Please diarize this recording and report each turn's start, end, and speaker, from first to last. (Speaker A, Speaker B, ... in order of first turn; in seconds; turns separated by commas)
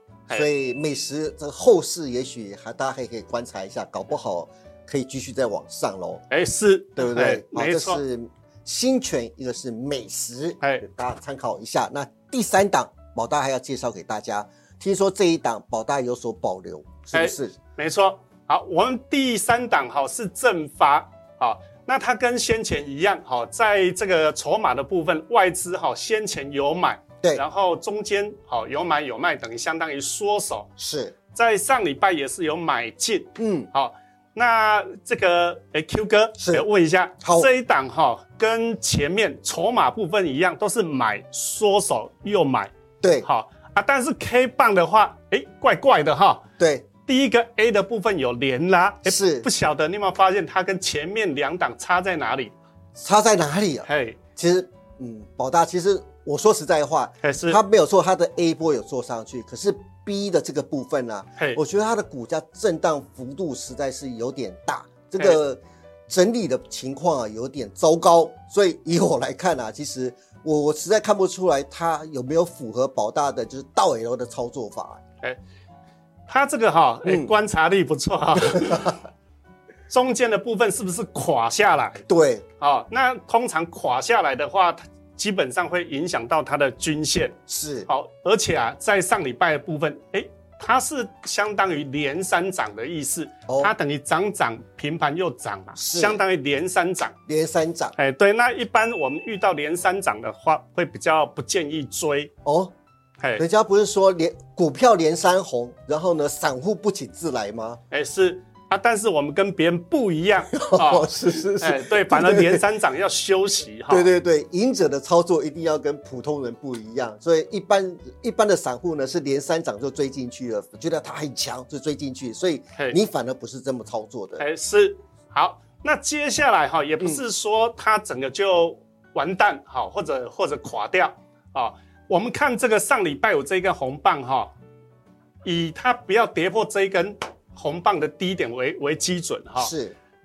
Speaker A: 0.3-6.2, Speaker B: 6.3-8.0, Speaker A: 7.0-17.6, Speaker B: 17.1-30.7, Speaker A: 30.8-31.1, Speaker B: 31.3-46.4, Speaker A: 33.4-33.7, Speaker A: 36.4-36.6, Speaker A: 37.2-37.5, Speaker A: 43.0-43.3, Speaker A: 46.6-46.9, Speaker B: 47.0-52.5, Speaker A: 49.0-49.5, Speaker A: 53.0-75.0, Speaker B: 53.9-54.2, Speaker B: 57.2-57.6, Speaker B: 76.3-79.0, Speaker A: 77.0-77.3, Speaker B: 79.9-82.0, Speaker A: 82.1-82.4, Speaker B: 82.6-97.1, Speaker A: 87.5-87.9, Speaker A: 93.5-93.7, Speaker A: 95.8-96.2, Speaker A: 97.3-98.0, Speaker B: 98.0-102.3, Speaker A: 102.4-102.7, Speaker A: 103.3-107.8, Speaker B: 107.9-114.1, Speaker A: 110.4-112.7, Speaker A: 113.9-124.5, Speaker B: 124.4-134.5, Speaker B: 135.4-139.7, Speaker A: 139.6-139.9